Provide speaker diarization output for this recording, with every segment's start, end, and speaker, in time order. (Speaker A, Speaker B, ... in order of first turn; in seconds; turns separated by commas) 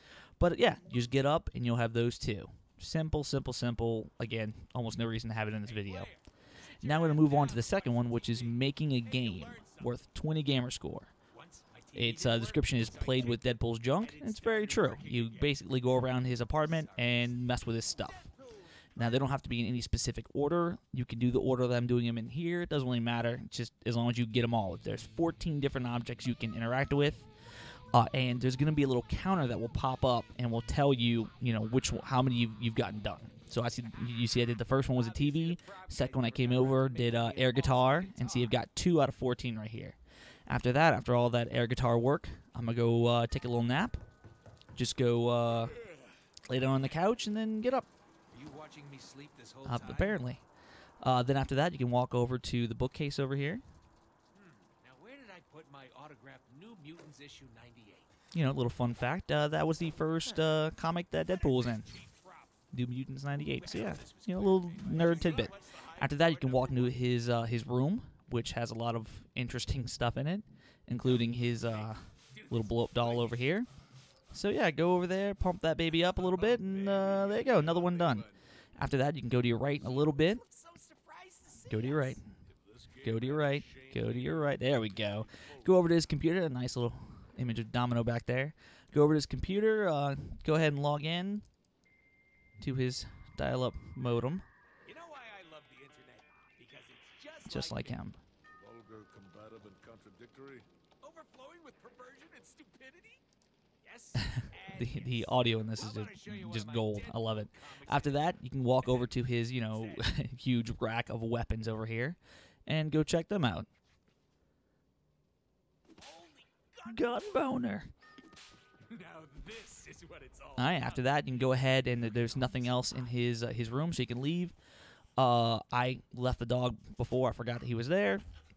Speaker A: 0.4-6.1, Speaker B: 5.6-10.0, Speaker A: 6.8-11.1, Speaker B: 11.3-15.7, Speaker A: 11.9-18.3, Speaker B: 16.5-19.3, Speaker A: 18.9-27.3, Speaker A: 27.9-44.0, Speaker B: 34.7-38.6, Speaker A: 44.7-45.8, Speaker A: 46.5-47.9, Speaker B: 48.3-50.2, Speaker A: 49.6-50.4, Speaker A: 51.0-53.6, Speaker B: 54.3-58.1, Speaker A: 58.3-62.0, Speaker B: 61.2-62.6, Speaker A: 62.7-73.7, Speaker B: 63.4-67.0, Speaker B: 71.5-73.5, Speaker A: 74.3-80.4, Speaker B: 75.9-78.4, Speaker B: 79.7-82.2, Speaker A: 81.7-82.3, Speaker C: 82.6-85.8, Speaker A: 83.0-91.4, Speaker B: 83.1-83.5, Speaker A: 92.6-94.4, Speaker B: 94.8-98.0, Speaker A: 97.5-98.2, Speaker C: 98.6-100.6, Speaker B: 101.0-103.2, Speaker B: 103.8-110.1, Speaker A: 104.3-113.7, Speaker B: 116.0-117.5, Speaker A: 116.8-117.9, Speaker B: 118.8-123.0, Speaker A: 120.6-124.5, Speaker A: 125.2-128.2